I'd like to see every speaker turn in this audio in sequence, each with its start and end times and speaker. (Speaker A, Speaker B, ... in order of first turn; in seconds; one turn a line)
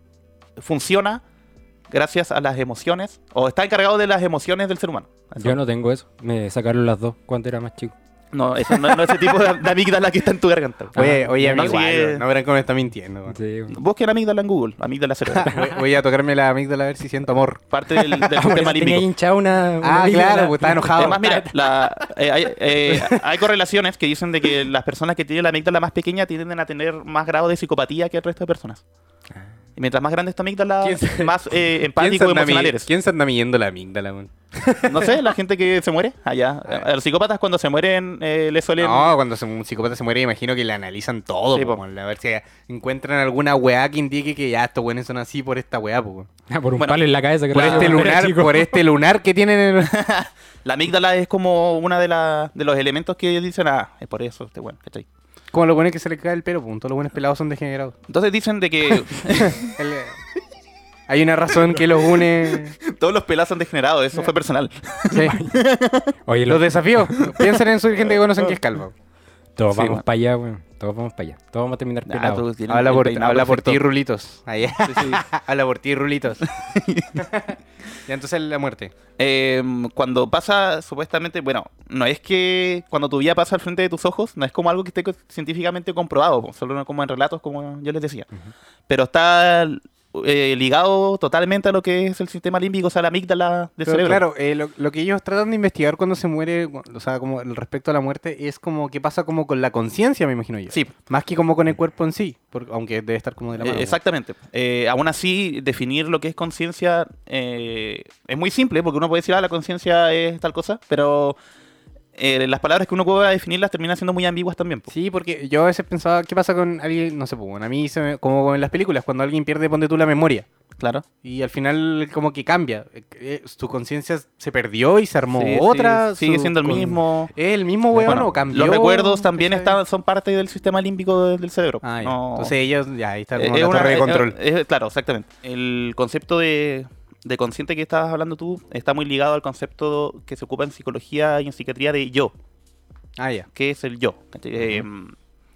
Speaker A: 0.6-1.2
Speaker A: 1.9-5.6
Speaker B: 5.4-7.9
Speaker A: 8.3-12.2
Speaker C: 10.9-13.3
Speaker B: 10.9-11.7
Speaker B: 13.3-13.8
Speaker A: 13.7-15.5
Speaker C: 15.3-17.6
Speaker B: 15.4-15.8
Speaker A: 17.7-19.1
Speaker B: 17.9-21.6
Speaker C: 19.8-21.2
Speaker A: 20.9-28.8
Speaker C: 22.9-23.1
Speaker A: 29.8-32.9
Speaker C: 30.8-35.2
Speaker A: 34.8-39.1
Speaker C: 38.8-46.3
Speaker A: 41.5-41.8
Speaker B: 46.5-48.8
Speaker A: 47.5-48.0
Speaker C: 47.5-50.0
Speaker A: 49.8-55.0
Speaker C: 55.5-57.9
Speaker A: 58.1-59.8
Speaker C: 59.1-60.2
Speaker C: 61.1-62.7
Speaker A: 62.2-66.2
Speaker C: 65.1-65.4
Speaker B: 65.2-65.5
Speaker B: 66.2-67.1
Speaker C: 66.5-68.9
Speaker A: 67.2-67.6
Speaker B: 69.6-72.5
Speaker A: 69.7-70.0
Speaker A: 72.1-73.8
Speaker C: 72.7-76.4
Speaker A: 74.9-75.2
Speaker A: 76.5-77.2
Speaker C: 77.2-78.9
Speaker A: 79.2-88.3
Speaker A: 88.9-94.2
Speaker C: 93.8-104.0
Speaker A: 103.6-111.4
Speaker A: 112.2-114.9
Speaker C: 114.9-120.5
Speaker A: 120.8-121.0
Speaker C: 121.2-129.8
Speaker A: 125.3-127.3
Speaker A: 127.9-132.5
Speaker C: 131.8-134.4
Speaker A: 133.3-142.3
Speaker C: 143.2-143.5
Speaker A: 143.5-145.1